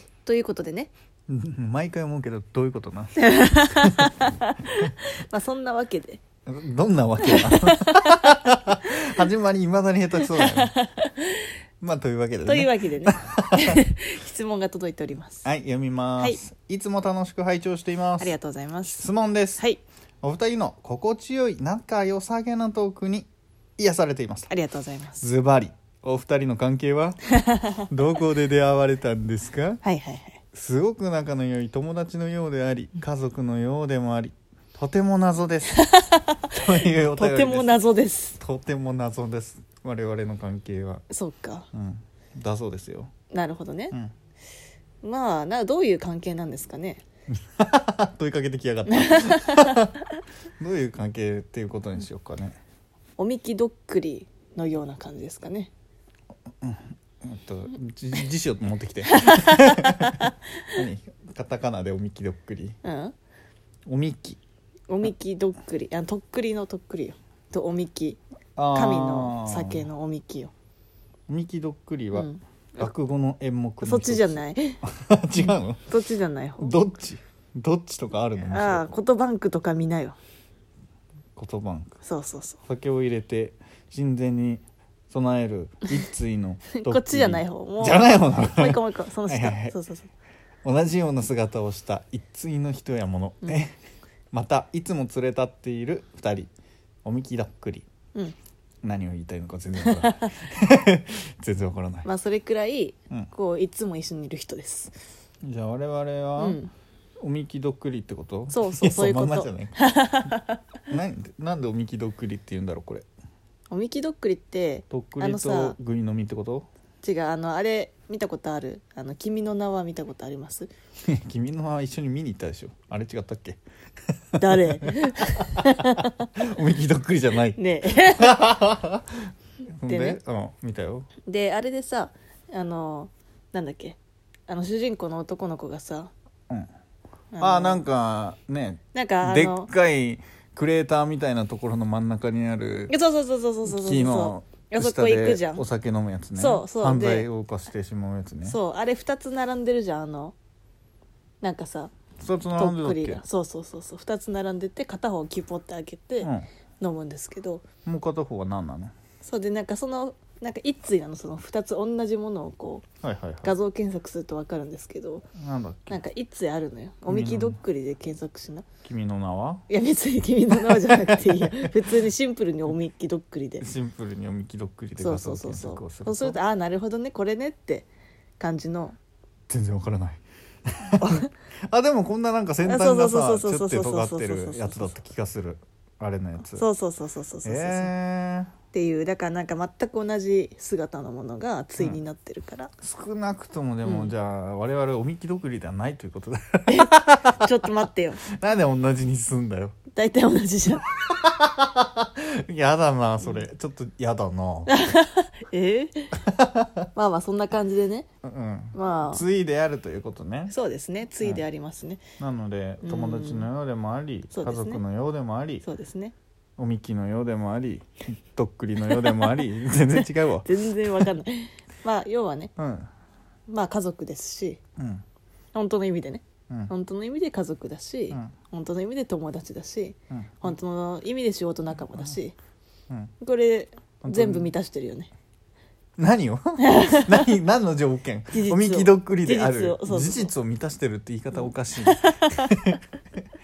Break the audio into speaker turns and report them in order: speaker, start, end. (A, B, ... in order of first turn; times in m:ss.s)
0:00.2-0:00.9 A
0:01.3-0:04.1 B
0:03.2-0:06.2 A
0:06.4-0:10.7 B
0:07.2-0:09.2 A
0:10.2-0:11.5 A
0:11.8-0:13.8 B
0:12.4-0:15.4 A
0:15.4-0:18.3 B
0:18.2-0:19.0 A
0:18.8-0:19.6 B
0:20.2-0:24.5 B
0:24.5-0:25.2 A
0:25.2-0:27.2 B
0:27.4-0:27.8 A
0:27.8-0:29.8 B
0:29.8-0:30.4 A
0:30.5-0:35.8 B
0:35.7-0:38.4 A
0:36.5-0:37.8 B
0:38.4-0:41.0 B
0:41.1-0:41.7 A
0:41.7-0:43.1 B
0:43.3-0:43.9 A
0:45.0-0:47.0 A
0:47.3-0:49.9 B
0:48.9-0:49.9 A
0:50.6-0:52.6 B
0:53.2-0:55.7 A
0:56.6-1:02.8 B
0:59.1-1:00.3 A
1:02.8-1:03.1 A
1:03.9-1:04.4 B
1:04.9-1:08.2 A
1:08.6-1:09.9 B
1:08.7-1:10.5 A
1:11.3-1:15.8 B
1:12.1-1:12.4 A
1:13.8-1:14.8 A
1:15.4-1:16.7 A
1:16.6-1:18.9 B
1:18.4-1:20.2 A
1:21.4-1:22.0 B
1:22.0-1:22.6 A
1:22.6-1:29.8 B
1:26.7-1:30.1 A
1:30.6-1:33.8 B
1:34.3-1:36.5 B
1:37.0-1:37.8 B
1:38.8-1:42.1 B
1:39.8-1:40.3 A
1:42.0-1:44.9 A
1:45.4-1:46.6 B
1:46.4-1:46.7 A
1:47.2-1:50.3 B
1:48.5-1:50.6 A
1:50.9-1:53.0 B
1:53.7-1:55.8 A
1:54.9-1:56.7 B
1:57.0-2:00.7 A
2:01.0-2:03.6 B
2:04.3-2:11.1 B
2:04.4-2:06.3 A
2:07.6-2:08.4 A
2:09.9-2:10.2 A
2:11.2-2:16.1 A
2:17.3-2:17.8 A
2:17.4-2:22.9 B
2:18.9-2:19.7 A
2:22.9-2:25.6 A
2:23.6-2:28.6 B
2:26.4-2:27.3 A
2:28.4-2:30.3 A
2:31.4-2:31.9 A
2:32.2-2:33.2 B
2:32.6-2:36.3 A
2:36.2-2:36.5 B
2:36.8-2:37.6 A
2:37.8-2:38.9 B
2:39.2-2:42.8 A
2:43.0-2:43.5 B
2:43.4-2:45.2 A
2:45.4-2:46.0 B
2:45.9-2:48.6 A
2:47.1-2:47.6 B
2:48.8-2:49.6 B
2:49.7-2:53.6 A
2:50.5-2:51.9 B
2:53.6-2:56.4 B
2:55.0-2:57.9 A
2:58.4-2:59.0 A
2:59.5-3:06.6 B
3:01.0-3:01.3 A
3:02.6-3:05.0 A
3:06.5-3:07.9 A
3:07.4-3:08.5 B
3:08.7-3:12.7 A
3:12.8-3:19.8 B
3:13.8-3:14.1 A
3:16.7-3:18.2 A
3:19.9-3:20.9 A
3:21.0-3:24.8 B
3:24.7-3:26.2 A
3:26.2-3:26.9 B
3:26.9-3:28.1 A
3:28.2-3:30.5 B
3:28.7-3:29.2 A
3:30.5-3:32.0 A
3:32.2-3:35.6 B
3:32.8-3:33.5 A
3:34.3-3:34.8 A
3:35.6-3:36.1 A
3:36.6-3:41.1 B
3:38.8-3:39.4 A
3:39.9-3:42.5 A
3:42.6-3:42.9 B
3:43.5-3:44.6 A
3:44.8-3:45.0 B
3:45.5-3:52.3 A
3:50.1-3:50.5 B
3:53.2-3:55.1 A
3:54.0-3:54.5 B
3:56.0-4:02.8 B
3:56.6-3:57.2 A
3:58.3-4:00.3 A
4:01.3-4:02.5 A